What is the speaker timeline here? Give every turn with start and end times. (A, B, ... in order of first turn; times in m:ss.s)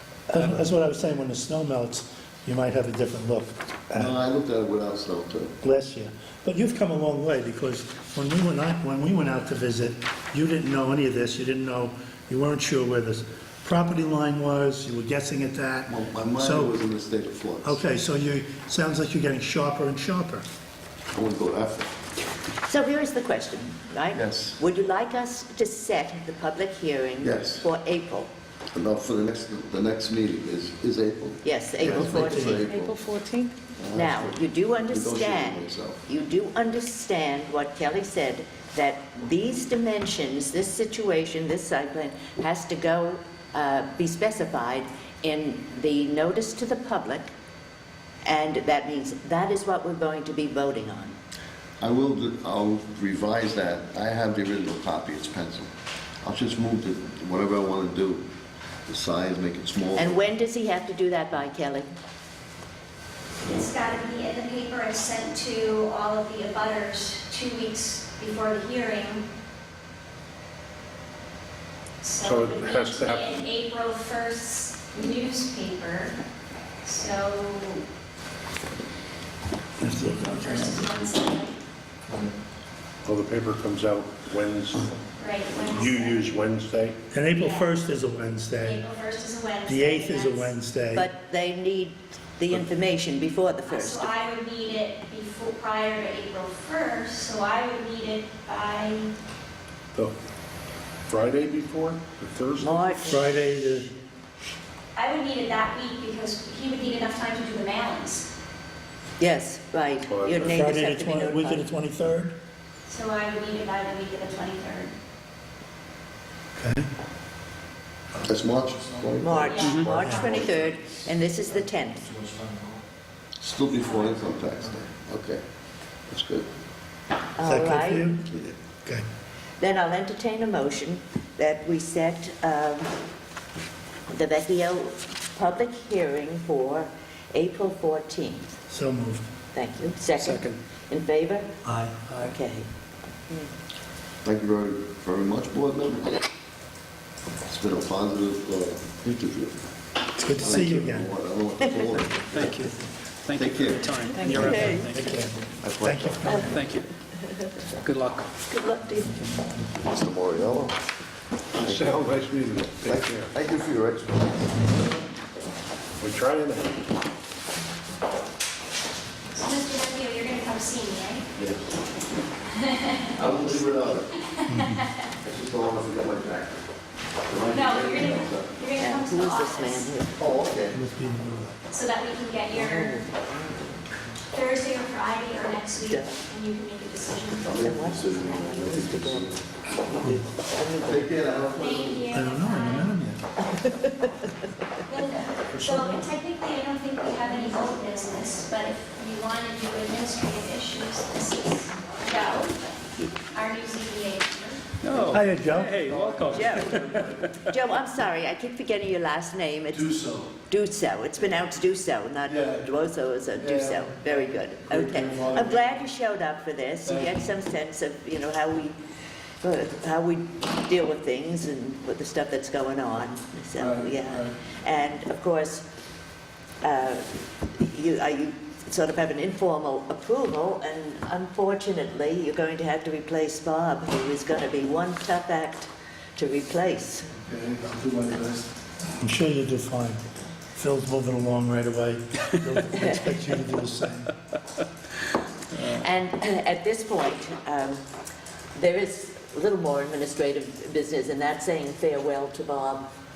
0:00.3-0:04.2 A
0:00.3-0:00.6 B
0:04.0-0:05.5 C
0:05.6-0:16.8 A
0:15.9-0:17.8 C
0:17.6-0:20.4 A
0:21.1-0:21.9 C
0:22.6-0:28.3 D
0:24.1-0:24.6 C
0:27.2-0:27.6 C
0:28.7-0:32.8 C
0:31.4-0:47.3 D
0:31.8-0:32.6 A
0:33.8-0:36.0 C
0:48.2-0:51.2 D
0:51.8-0:55.7 C
0:56.2-0:58.3 C
0:58.9-1:00.2 C
1:00.0-1:01.9 D
1:03.4-1:09.2 E
1:12.0-1:16.2 E
1:12.2-1:13.5 F
1:16.8-1:17.8 E
1:19.8-1:20.8 A
1:20.0-1:21.6 E
1:23.0-1:24.9 F
1:25.2-1:26.4 E
1:25.6-1:27.0 F
1:27.1-1:28.8 A
1:27.3-1:27.7 E
1:28.6-1:30.5 E
1:29.7-1:31.1 A
1:30.9-1:34.1 D
1:33.7-1:39.1 E
1:41.1-1:43.2 F
1:42.6-1:43.3 D
1:43.1-1:43.9 A
1:45.0-1:48.3 E
1:49.2-1:51.7 D
1:50.1-1:50.6 F
1:50.5-1:52.4 A
1:52.9-1:55.0 E
1:56.6-1:56.9 A
1:58.2-1:59.5 C
1:58.9-1:59.6 G
1:59.2-2:02.1 D
1:59.5-1:59.9 E
1:59.8-2:00.7 F
2:00.0-2:00.3 A
2:02.1-2:02.8 G
2:03.4-2:05.4 C
2:03.8-2:04.2 E
2:06.1-2:06.5 C
2:07.4-2:08.1 D
2:07.4-2:08.3 A
2:08.3-2:08.6 C
2:09.6-2:12.9 D
2:14.1-2:18.6 D
2:18.7-2:19.3 A
2:19.5-2:21.5 D
2:20.2-2:20.6 B
2:21.6-2:22.0 A
2:22.1-2:22.7 D
2:24.2-2:26.2 C
2:27.5-2:29.6 C
2:30.2-2:31.1 A
2:30.4-2:32.6 C
2:32.3-2:35.1 B
2:33.4-2:33.9 C
2:34.2-2:36.5 A
2:34.2-2:35.0 D
2:35.6-2:36.2 C
2:36.2-2:36.9 B
2:36.3-2:36.6 D
2:37.8-2:38.3 B
2:38.5-2:39.3 D
2:39.8-2:40.8 C
2:41.6-2:43.3 F
2:41.7-2:42.1 C
2:42.8-2:44.8 C
2:46.0-2:46.8 F
2:49.3-2:51.3 E
2:51.4-2:51.6 C
2:52.6-2:53.3 E
2:53.2-2:54.1 C
2:54.4-2:54.9 E
2:54.5-2:54.8 A
2:55.2-2:56.6 C
2:57.3-2:58.5 C
2:57.5-2:59.9 E
2:58.8-3:00.3 D
3:00.2-3:00.8 C
3:00.7-3:01.6 A
3:01.7-3:03.0 E
3:02.5-3:03.8 D
3:04.3-3:07.5 E
3:05.8-3:06.2 D
3:07.5-3:09.4 C
3:07.5-3:11.2 D
3:10.8-3:12.1 C
3:11.6-3:12.9 E
3:12.1-3:13.2 A
3:13.5-3:14.3 D
3:14.9-3:24.6 E
3:24.8-3:27.2 B
3:25.0-3:25.8 A
3:25.8-3:27.1 G
3:26.2-3:38.8 D
3:29.7-3:30.3 G
3:32.3-3:32.6 G
3:33.4-3:35.8 G
3:36.9-3:37.1 G
3:39.4-3:45.6 D
3:43.6-3:44.3 G
3:46.6-3:57.1 D
3:57.2-3:58.5 G
3:59.0-4:00.0 A
4:00.6-4:04.1 A
4:02.8-4:03.1 D
4:05.5-4:07.8 D
4:08.6-4:12.8 D